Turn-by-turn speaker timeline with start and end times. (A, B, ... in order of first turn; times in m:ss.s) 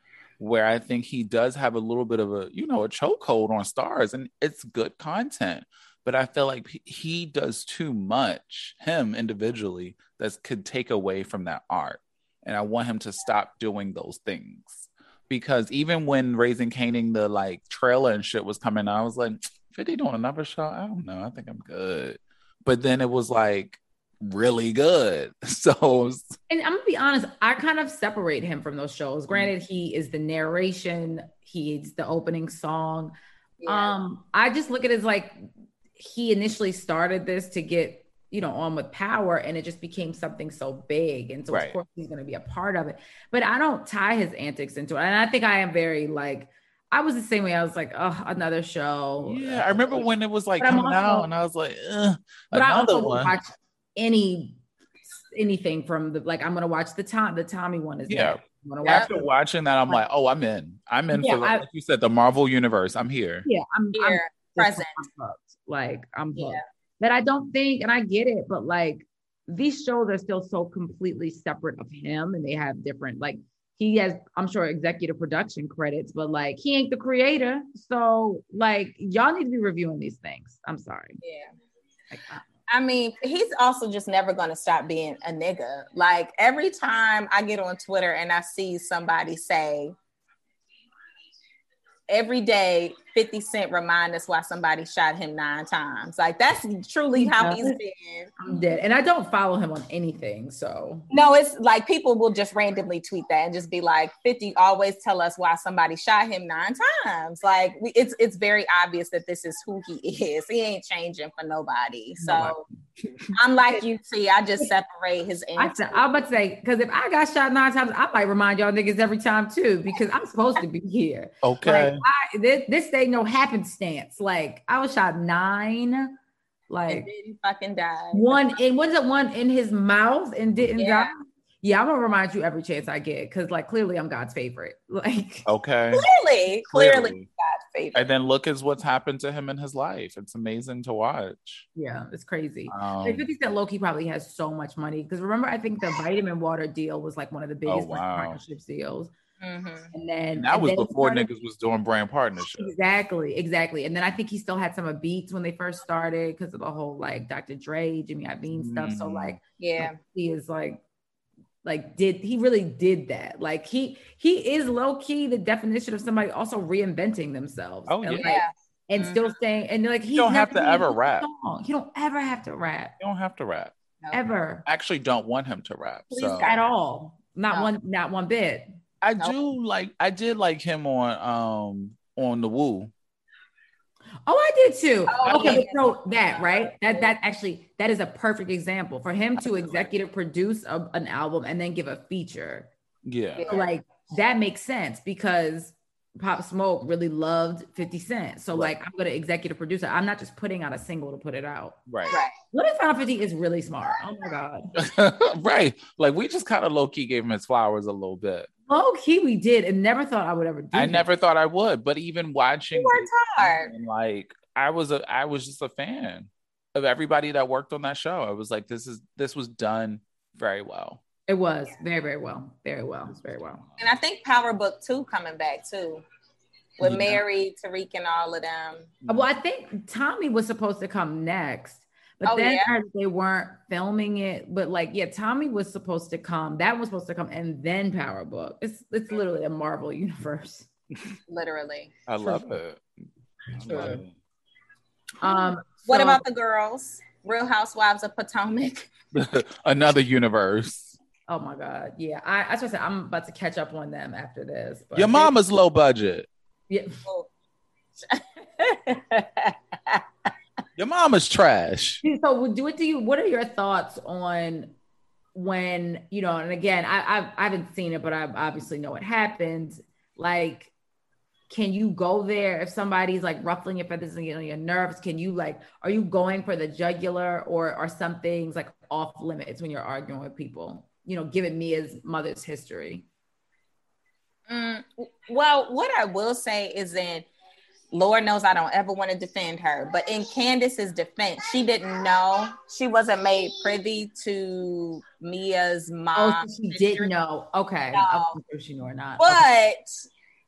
0:00.4-0:26.4 A
0:26.5-0:33.1 B
0:33.6-0:33.9 C
0:33.7-0:50.1 B
0:41.5-0:41.8 A
0:49.2-0:53.4 A
0:50.6-0:51.3 B
0:52.5-0:54.6 B
0:55.1-0:59.3 B
0:58.1-1:03.5 A
1:01.1-1:01.6 B
1:03.4-1:21.2 B
1:03.9-1:05.1 C
1:06.4-1:06.6 C
1:21.2-1:21.5 C
1:22.1-1:22.4 B
1:22.7-1:30.0 C
1:32.1-1:38.3 C
1:37.2-1:37.8 B
1:38.4-1:41.1 B
1:41.1-1:52.6 C
1:52.2-1:52.6 B
1:53.4-1:56.0 C
1:55.6-2:06.1 B
2:01.4-2:02.0 A
2:06.7-2:07.1 B
2:06.9-2:08.6 C
2:08.1-2:15.5 B
2:10.8-2:11.1 C
2:15.4-2:16.0 A
2:15.9-2:18.0 C
2:16.7-2:17.2 A
2:17.9-2:21.7 A
2:21.8-2:29.1 B
2:22.7-2:23.3 A
2:27.7-2:28.4 A
2:29.4-2:29.9 C
2:29.9-2:31.3 B
2:30.4-2:32.7 A
2:32.5-2:40.8 B
2:38.5-2:39.4 A
2:39.6-2:40.0 C
2:41.6-2:53.0 B
2:47.9-2:48.4 A
2:48.2-2:49.3 C
2:50.1-2:51.3 A
2:53.0-2:53.7 A
2:54.1-2:54.7 B
2:54.7-2:56.5 A
2:56.1-2:56.6 C
2:56.4-2:58.7 B
2:59.0-3:02.9 A
3:04.3-3:12.7 B
3:05.1-3:07.1 C
3:05.2-3:05.6 A
3:13.0-3:13.5 A
3:13.4-3:13.7 C
3:13.5-3:21.8 B
3:21.9-3:22.2 A
3:22.1-3:22.4 C
3:22.5-3:24.7 B
3:24.8-3:28.5 A
3:28.7-3:31.1 B
3:30.7-3:41.0 A
3:32.7-3:33.7 C
3:41.3-3:43.6 B
3:43.8-3:46.0 C
3:46.8-3:49.0 C
3:46.8-3:47.2 A
3:49.1-4:00.7 B
3:52.3-3:52.7 C
4:01.3-4:01.9 C
4:02.1-4:02.8 A
4:02.2-4:02.5 B
4:03.5-4:04.1 A
4:03.6-4:04.0 B
4:03.7-4:04.0 C
4:05.2-4:06.2 B
4:05.2-4:08.9 C
4:09.1-4:11.0 A
4:11.3-4:15.4 B
4:15.0-4:16.3 A
4:16.7-4:17.0 B
4:18.0-4:20.0 C
4:20.8-4:22.0 A
4:22.0-4:24.7 B
4:25.4-4:30.7 B
4:31.5-4:43.1 B
4:44.5-4:47.3 C
4:47.9-4:57.1 C
4:56.1-4:59.4 B
4:57.9-4:58.4 C
4:59.2-5:00.0 C